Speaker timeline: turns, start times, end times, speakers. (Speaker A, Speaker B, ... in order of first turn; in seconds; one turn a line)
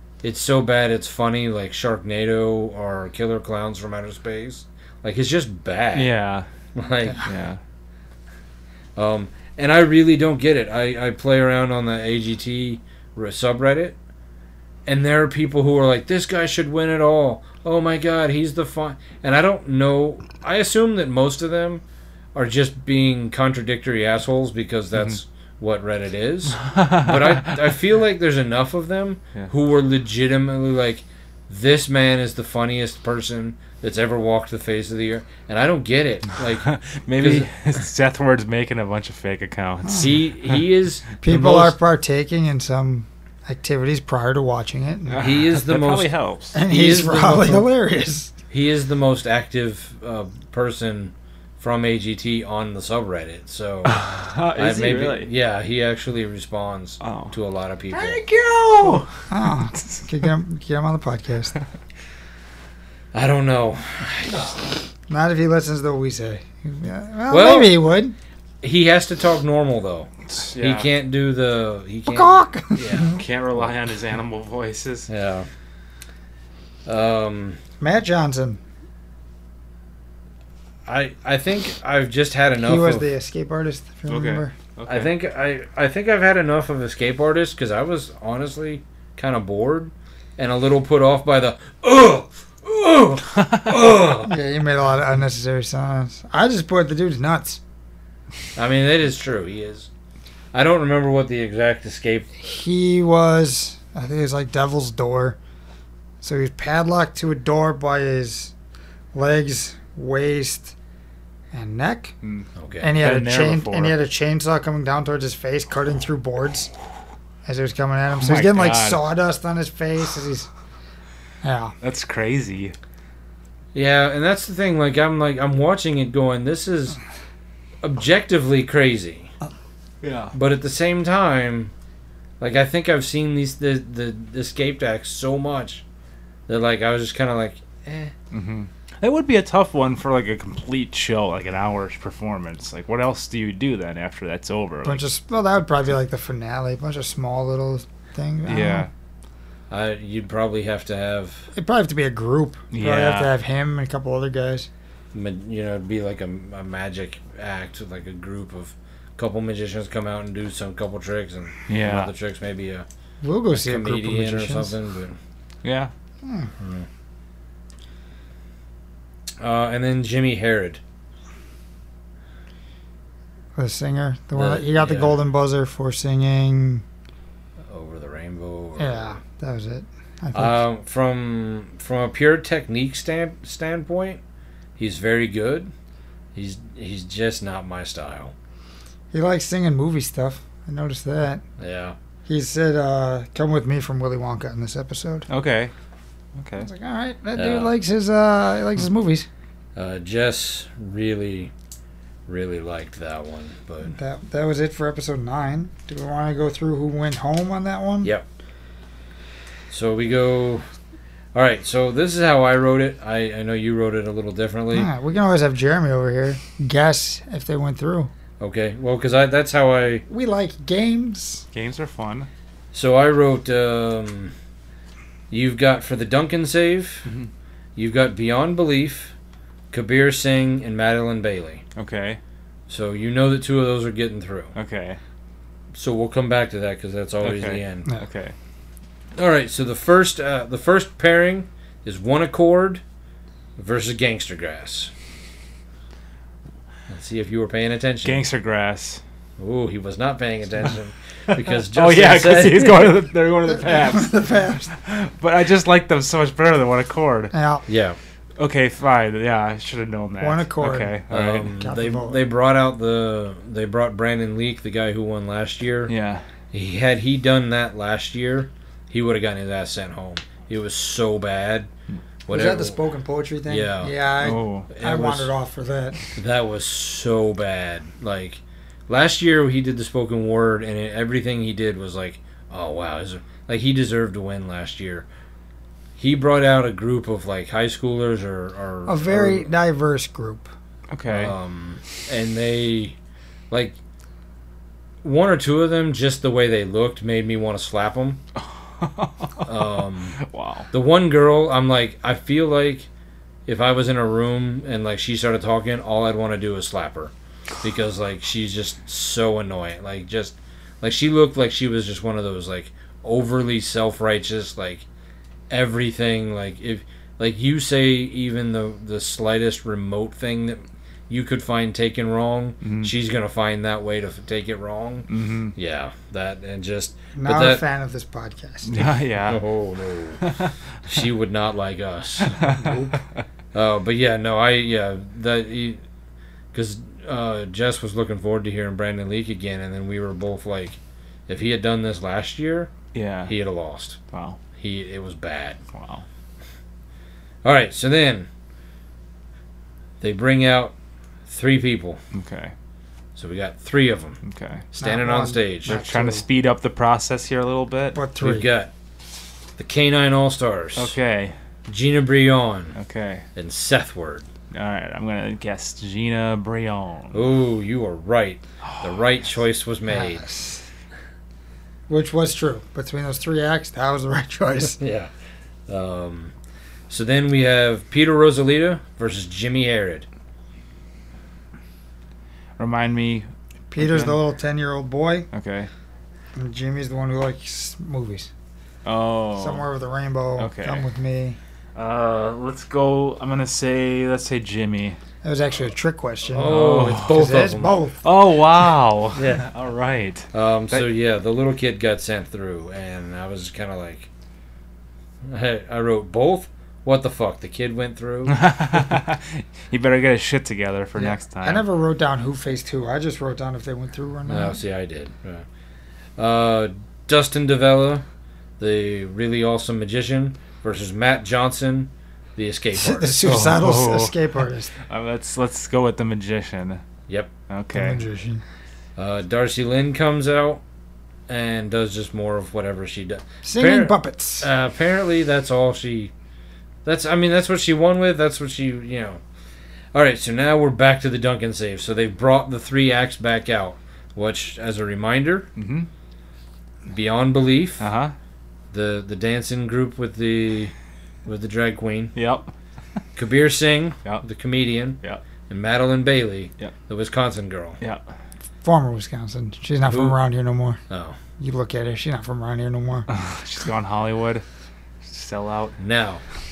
Speaker A: 0.2-6.1
Speaker B: 5.9-6.5
Speaker A: 6.7-7.3
Speaker B: 7.2-7.6
Speaker A: 8.9-13.9
Speaker A: 14.8-21.8
Speaker A: 22.3-37.5
Speaker B: 26.6-27.6
Speaker B: 36.6-40.1
Speaker A: 39.9-41.7
Speaker C: 41.2-45.3
Speaker B: 45.0-46.6
Speaker A: 45.2-46.1
Speaker C: 46.5-48.3
Speaker A: 46.7-47.6
Speaker A: 48.5-54.0
Speaker B: 53.9-55.3
Speaker A: 54.5-58.2
Speaker B: 57.0-57.3
Speaker B: 57.9-59.1
Speaker C: 59.3-61.5
Speaker A: 63.1-64.8
Speaker C: 65.1-68.1
Speaker A: 67.3-67.8
Speaker A: 68.6-73.2
Speaker B: 70.3-70.9
Speaker C: 72.1-73.2
Speaker B: 73.0-75.1
Speaker A: 75.1-75.5
Speaker A: 76.8-77.6
Speaker C: 77.8-78.6
Speaker A: 80.8-83.1
Speaker C: 82.6-84.5
Speaker B: 84.1-85.1
Speaker A: 84.9-94.3
Speaker C: 94.2-97.6
Speaker A: 98.5-99.9
Speaker A: 100.5-102.3
Speaker C: 102.4-105.4
Speaker C: 106.2-108.5
Speaker C: 109.1-110.7
Speaker C: 111.5-112.2
Speaker B: 112.2-114.0
Speaker A: 112.6-112.9
Speaker C: 112.8-116.7
Speaker C: 117.4-120.5
Speaker B: 118.2-119.0
Speaker C: 121.4-121.7
Speaker B: 121.8-122.7
Speaker A: 123.7-127.0
Speaker A: 127.8-129.3
Speaker B: 130.0-130.3
Speaker A: 130.3-131.7
Speaker A: 132.4-135.8
Speaker A: 136.5-138.1
Speaker B: 138.3-145.0
Speaker C: 144.8-148.9
Speaker B: 148.4-148.9
Speaker A: 149.7-151.5
Speaker C: 151.5-154.7
Speaker B: 152.7-153.3
Speaker A: 155.1-162.8
Speaker B: 161.7-162.1
Speaker C: 163.2-164.7
Speaker A: 163.5-165.2
Speaker B: 165.6-165.9
Speaker C: 166.2-166.5
Speaker A: 166.6-166.9
Speaker A: 169.4-170.8
Speaker C: 173.6-176.8
Speaker A: 174.3-175.2
Speaker A: 177.7-179.2
Speaker C: 178.8-180.6
Speaker A: 180.3-184.2
Speaker A: 184.8-185.7
Speaker A: 186.3-188.3
Speaker C: 189.1-191.4
Speaker A: 191.6-192.0
Speaker C: 192.2-195.3
Speaker B: 195.3-195.7
Speaker B: 196.3-196.7
Speaker C: 196.6-199.3
Speaker A: 197.3-197.7
Speaker A: 199.8-201.5
Speaker A: 202.3-203.9
Speaker C: 203.8-208.1
Speaker A: 209.7-210.7
Speaker A: 211.3-214.9
Speaker C: 214.7-218.1
Speaker A: 218.4-220.0
Speaker C: 220.1-221.4
Speaker B: 221.5-222.3
Speaker A: 222.7-224.3
Speaker A: 225.3-227.1
Speaker A: 227.8-229.1
Speaker A: 229.7-231.6
Speaker B: 231.8-232.2
Speaker A: 232.7-234.5
Speaker B: 234.5-235.0
Speaker A: 235.7-237.9
Speaker B: 237.2-238.3
Speaker A: 239.2-242.8
Speaker A: 243.6-244.9
Speaker A: 246.9-248.2
Speaker B: 248.0-249.0
Speaker A: 249.4-252.9
Speaker B: 251.3-257.3
Speaker C: 253.5-254.7
Speaker C: 257.3-257.6
Speaker A: 257.7-258.0
Speaker B: 258.4-261.5
Speaker C: 260.2-261.0
Speaker A: 261.1-265.9
Speaker C: 261.6-262.2
Speaker B: 265.9-266.2
Speaker A: 266.5-271.7
Speaker A: 272.3-272.8
Speaker C: 272.3-276.0
Speaker A: 273.5-273.9
Speaker B: 274.2-274.7
Speaker A: 274.7-275.3
Speaker A: 276.1-285.1
Speaker A: 286.0-289.5
Speaker C: 288.9-290.5
Speaker B: 290.9-291.3
Speaker A: 291.1-293.0
Speaker A: 293.5-293.8
Speaker A: 295.0-298.2
Speaker B: 298.6-299.5
Speaker A: 299.4-300.2
Speaker B: 300.1-300.7
Speaker A: 300.7-302.9
Speaker A: 303.4-314.9
Speaker A: 315.5-327.6
Speaker B: 322.6-322.9
Speaker B: 325.1-325.5
Speaker C: 327.1-328.7
Speaker B: 328.7-329.4
Speaker A: 329.3-330.2
Speaker B: 330.2-330.5
Speaker A: 330.9-332.8
Speaker B: 332.2-333.2
Speaker C: 332.6-332.9
Speaker A: 333.5-335.8
Speaker A: 336.5-342.7
Speaker B: 342.9-343.4
Speaker A: 343.3-344.0
Speaker B: 344.1-344.4
Speaker A: 344.6-345.6
Speaker B: 345.7-346.0
Speaker A: 347.4-348.3
Speaker A: 350.0-350.7
Speaker A: 351.3-352.0
Speaker B: 352.1-352.5
Speaker A: 353.1-354.2
Speaker B: 354.2-354.6
Speaker A: 354.7-355.8
Speaker C: 354.8-356.2
Speaker B: 355.6-358.0
Speaker C: 357.9-358.5
Speaker A: 358.2-358.7
Speaker A: 359.6-360.9
Speaker B: 360.8-361.4
Speaker A: 361.7-362.8
Speaker B: 362.7-363.2
Speaker A: 363.4-364.3
Speaker B: 364.5-367.2
Speaker A: 367.1-370.2
Speaker B: 368.6-368.9
Speaker C: 369.9-370.6
Speaker C: 371.9-374.8
Speaker A: 374.8-375.1
Speaker A: 375.7-376.3
Speaker A: 376.9-380.1
Speaker B: 382.6-384.2
Speaker C: 383.7-385.3
Speaker B: 385.3-385.7
Speaker C: 386.3-388.3
Speaker B: 388.8-389.6
Speaker C: 389.4-391.4
Speaker B: 390.4-390.9
Speaker B: 391.8-395.0
Speaker C: 395.2-398.0
Speaker A: 396.3-397.8
Speaker B: 396.4-397.3
Speaker B: 398.0-400.9
Speaker A: 399.1-399.4
Speaker A: 400.3-404.1
Speaker A: 405.2-408.4
Speaker B: 408.3-411.6
Speaker C: 410.9-414.6
Speaker A: 414.3-415.4
Speaker A: 416.2-418.0
Speaker A: 418.6-423.4
Speaker C: 422.7-424.7
Speaker B: 423.2-424.2
Speaker B: 424.9-426.8
Speaker B: 427.5-428.0
Speaker C: 427.7-428.4
Speaker A: 429.0-430.6
Speaker A: 431.3-436.1
Speaker C: 433.4-434.5
Speaker A: 436.8-439.2
Speaker A: 439.9-445.5
Speaker B: 445.6-445.9
Speaker A: 446.9-447.8
Speaker B: 447.8-448.1
Speaker A: 448.7-450.7
Speaker A: 451.2-452.1
Speaker B: 452.1-452.5
Speaker A: 453.1-457.8
Speaker C: 458.6-460.8
Speaker A: 459.9-460.1
Speaker A: 460.9-461.2
Speaker C: 461.4-463.1
Speaker B: 463.1-464.4
Speaker B: 465.0-465.8
Speaker A: 465.8-466.2